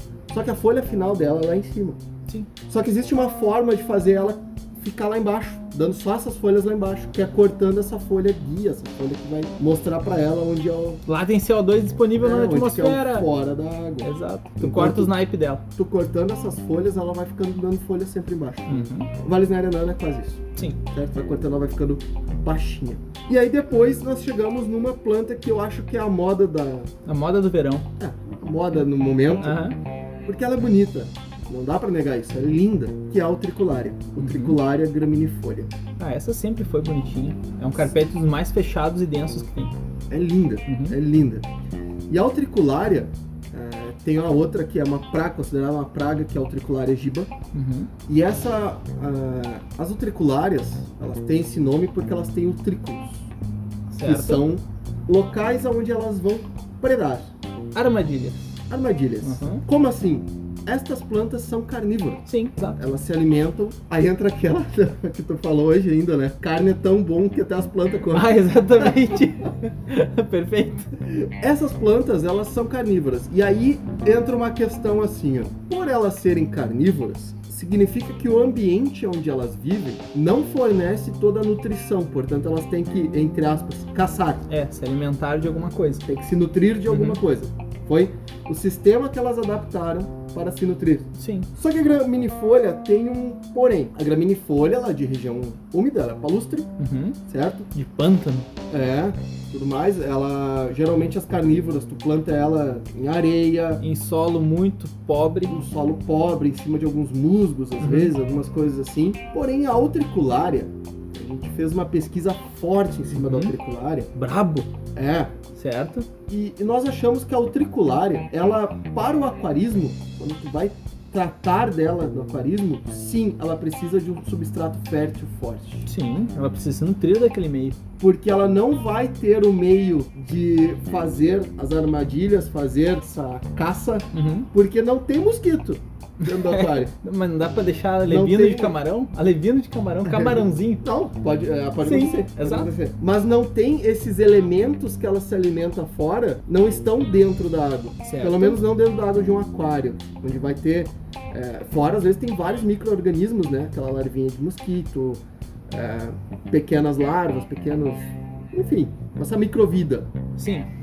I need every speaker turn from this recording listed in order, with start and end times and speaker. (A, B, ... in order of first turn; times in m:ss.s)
0:00.3-0:02.0 A
0:02.7-0:11.0 A
0:11.1-0:13.3 B
0:12.2-0:15.1 A
0:14.0-0:15.6 B
0:15.8-0:26.9 A
0:18.7-0:19.1 B
0:27.1-0:27.9 B
0:28.0-0:29.6 A
0:29.4-0:29.8 B
0:30.2-0:35.7 A
0:34.2-0:34.6 B
0:36.0-0:39.7 B
0:40.1-0:41.5 A
0:40.7-0:41.0 B
0:42.1-0:47.3 A
0:47.5-0:47.9 B
0:48.1-0:53.3 A
0:53.9-0:54.4 B
0:54.0-0:57.3 A
0:57.8-0:58.6 B
0:58.7-1:02.2 A
0:59.2-0:59.6 B
1:02.3-1:02.8 B
1:02.8-1:09.2 A
1:08.1-1:10.9 B
1:11.1-1:24.5 A
1:24.5-1:26.1 B
1:26.1-1:36.7 A
1:26.9-1:27.2 B
1:31.2-1:31.5 B
1:36.8-1:37.2 B
1:37.3-1:37.7 A
1:37.7-1:38.5 B
1:38.7-1:43.8 A
1:43.8-1:45.6 B
1:45.5-1:54.1 A
1:47.8-1:48.1 B
1:53.1-1:53.5 B
1:54.2-1:54.7 B
1:55.0-1:55.3 A
1:55.6-1:56.1 B
1:56.3-2:05.9 A
2:05.9-2:07.8 B
2:08.0-2:16.9 A
2:14.1-2:14.5 B
2:16.2-2:20.8 B
2:18.0-2:18.8 A
2:20.0-2:40.1 A
2:21.8-2:22.7 B
2:28.0-2:28.6 B
2:40.4-2:40.7 B